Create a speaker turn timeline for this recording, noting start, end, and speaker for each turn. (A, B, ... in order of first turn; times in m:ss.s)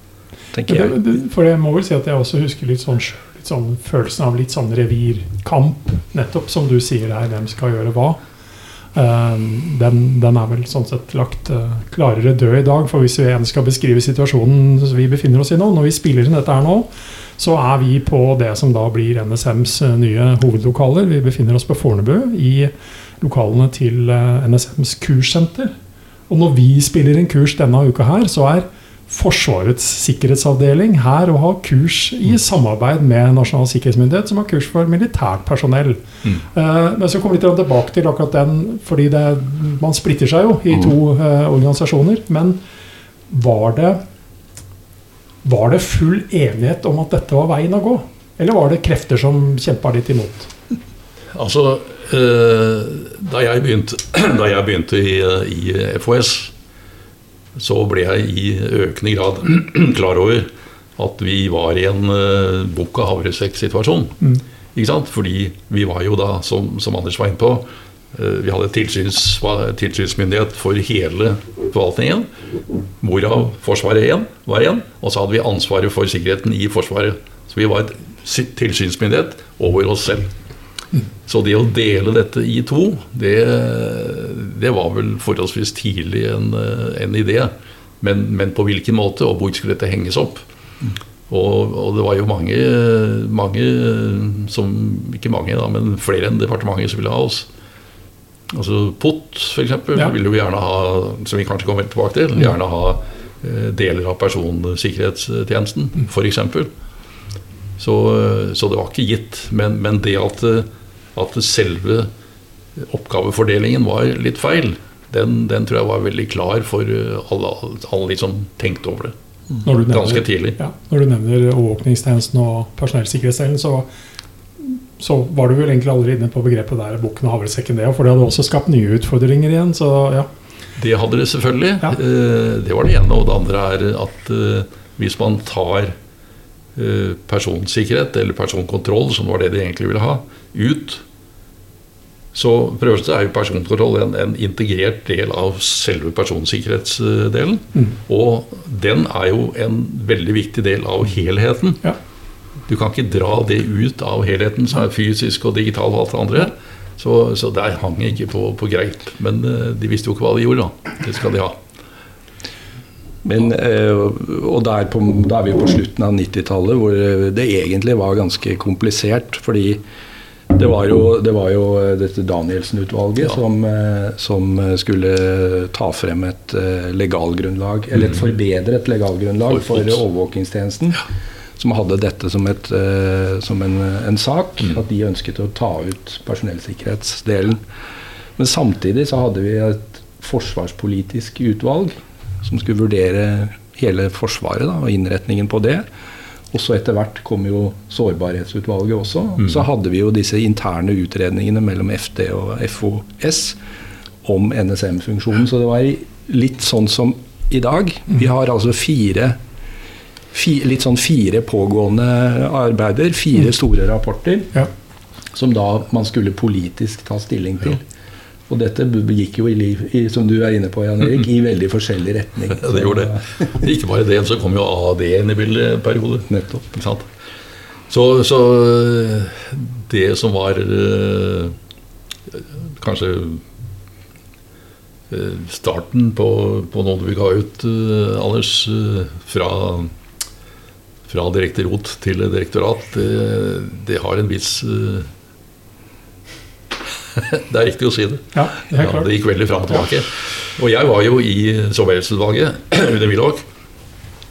0:00.5-0:00.9 A
0:00.7-0:08.2 B
0:08.9-0:25.7 B
0:26.3-0:42.6 B
0:43.3-0:44.0 B
0:45.4-0:50.5 B
0:51.3-0:56.5 C
0:57.6-1:04.2 C
1:04.7-1:12.3 C
1:13.0-1:20.3 C
1:21.2-1:30.4 C
1:31.3-1:37.5 C
1:38.5-1:46.7 C
1:47.8-1:52.1 C
1:52.8-1:59.1 C
1:59.6-2:03.9 B
1:59.9-2:00.6 C
2:04.6-2:10.3 B
2:10.8-2:15.9 C
2:16.8-2:21.0 C
2:22.3-2:31.8 C
2:32.7-2:41.6 C
2:43.2-2:49.8 A
2:50.5-3:01.0 A
2:59.6-3:00.0 C
3:01.6-3:07.6 A
3:08.4-3:15.8 A
3:16.5-3:23.6 A
3:24.2-3:29.4 A
3:30.3-3:34.6 A
3:35.3-3:37.8 A
3:38.5-3:43.3 A
3:42.5-3:47.1 C
3:46.3-3:46.6 A
3:47.9-3:51.6 C
3:52.3-3:53.4 C
3:55.1-3:59.9 C
4:01.1-4:05.1 C
4:07.1-4:13.4 C
4:08.3-4:09.1 B